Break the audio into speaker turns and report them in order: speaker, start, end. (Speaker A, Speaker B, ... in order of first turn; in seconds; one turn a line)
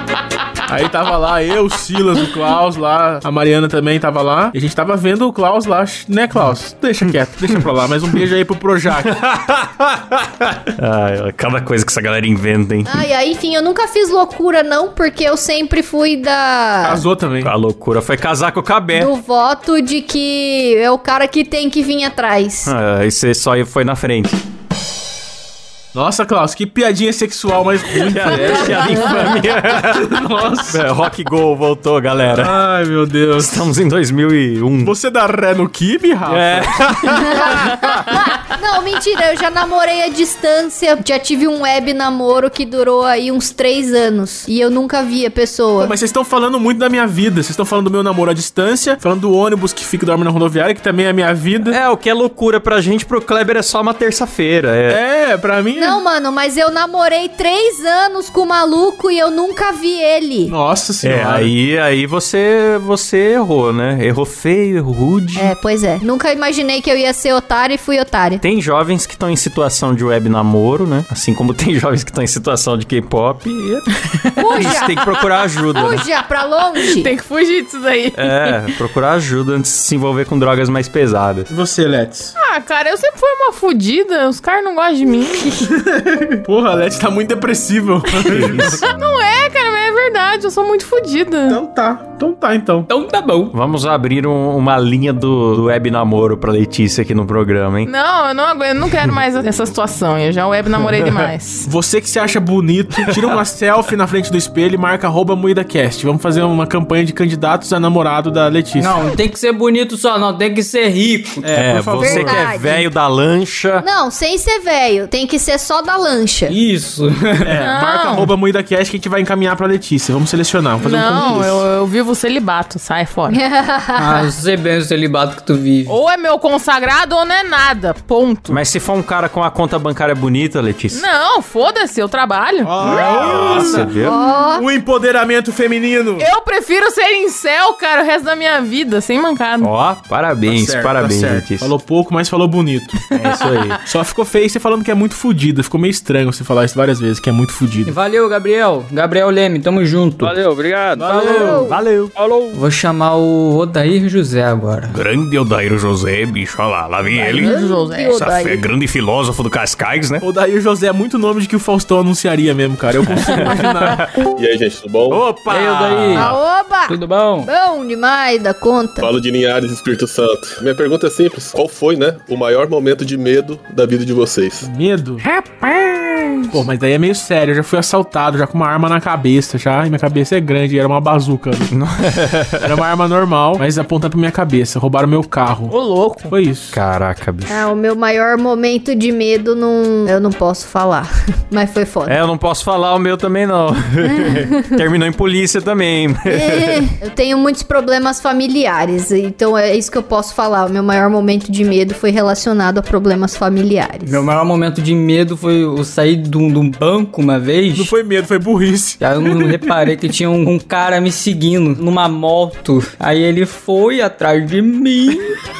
Speaker A: 0.7-9.1
Speaker B: 9.0-13.0
Speaker C: 12.8-17.0
Speaker A: 16.8-17.5
Speaker B: 17.4-19.1
Speaker C: 18.9-22.7
Speaker B: 22.6-24.4
Speaker A: 25.9-29.3
Speaker B: 28.1-32.6
Speaker A: 29.9-30.8
Speaker A: 32.3-33.7
Speaker B: 33.4-34.9
Speaker A: 34.8-37.2
Speaker B: 36.3-38.4
Speaker C: 37.3-37.6
Speaker C: 38.1-45.9
Speaker A: 45.8-51.8
Speaker B: 51.7-55.0
Speaker A: 54.9-56.0
Speaker C: 55.8-60.5
Speaker A: 60.5-61.5
Speaker B: 61.0-65.5
Speaker C: 65.3-68.4
Speaker B: 68.4-73.8
Speaker C: 74.4-75.0
Speaker B: 74.5-76.0
Speaker C: 75.7-77.1
Speaker D: 76.8-78.6
Speaker B: 78.1-81.5
Speaker A: 81.5-82.3
Speaker D: 82.4-85.7
Speaker A: 85.7-88.8
Speaker B: 88.3-88.8
Speaker D: 88.8-91.6
Speaker A: 91.5-92.9
Speaker E: 92.9-93.5
Speaker B: 93.5-97.9
Speaker D: 97.8-101.7
Speaker A: 101.7-109.0
Speaker B: 103.1-103.4
Speaker E: 108.8-111.4
Speaker A: 111.4-112.5
Speaker B: 111.5-113.8
Speaker C: 112.0-112.8
Speaker C: 113.8-116.5
Speaker E: 116.5-117.6
Speaker A: 117.4-121.7
Speaker D: 117.6-118.3
Speaker D: 120.8-123.4
Speaker C: 123.3-124.3
Speaker E: 124.0-125.9
Speaker D: 125.9-128.6
Speaker B: 128.5-131.0
Speaker D: 130.9-133.8
Speaker A: 132.6-133.9
Speaker B: 132.8-134.1
Speaker C: 134.0-134.6
Speaker A: 134.5-136.3
Speaker D: 136.2-139.7
Speaker B: 139.6-141.7
Speaker A: 140.4-143.0
Speaker B: 143.1-143.8
Speaker D: 143.3-143.8
Speaker A: 143.8-147.9
Speaker E: 147.8-150.3
Speaker F: 150.2-152.6
Speaker A: 150.9-151.6
Speaker C: 151.2-151.8
Speaker B: 151.6-152.1
Speaker E: 152.5-154.9
Speaker B: 154.9-157.5
Speaker D: 157.2-158.4
Speaker C: 157.3-158.6
Speaker B: 158.1-160.2
Speaker A: 160.2-164.0
Speaker B: 163.1-164.0
Speaker G: 164.3-165.2
Speaker B: 165.1-166.3
Speaker E: 165.5-166.3
Speaker C: 166.1-169.1
Speaker E: 166.8-167.5
Speaker G: 169.0-174.7
Speaker A: 174.6-175.2
Speaker A: 176.5-181.7
Speaker B: 181.7-182.7
Speaker A: 182.6-185.7
Speaker D: 185.7-186.3
Speaker A: 186.3-186.7
Speaker B: 186.7-187.7
Speaker C: 187.5-192.2
Speaker B: 192.1-196.8
Speaker C: 194.0-194.4
Speaker C: 196.3-204.2
Speaker E: 204.0-207.9
Speaker A: 207.7-209.7
Speaker E: 209.0-215.4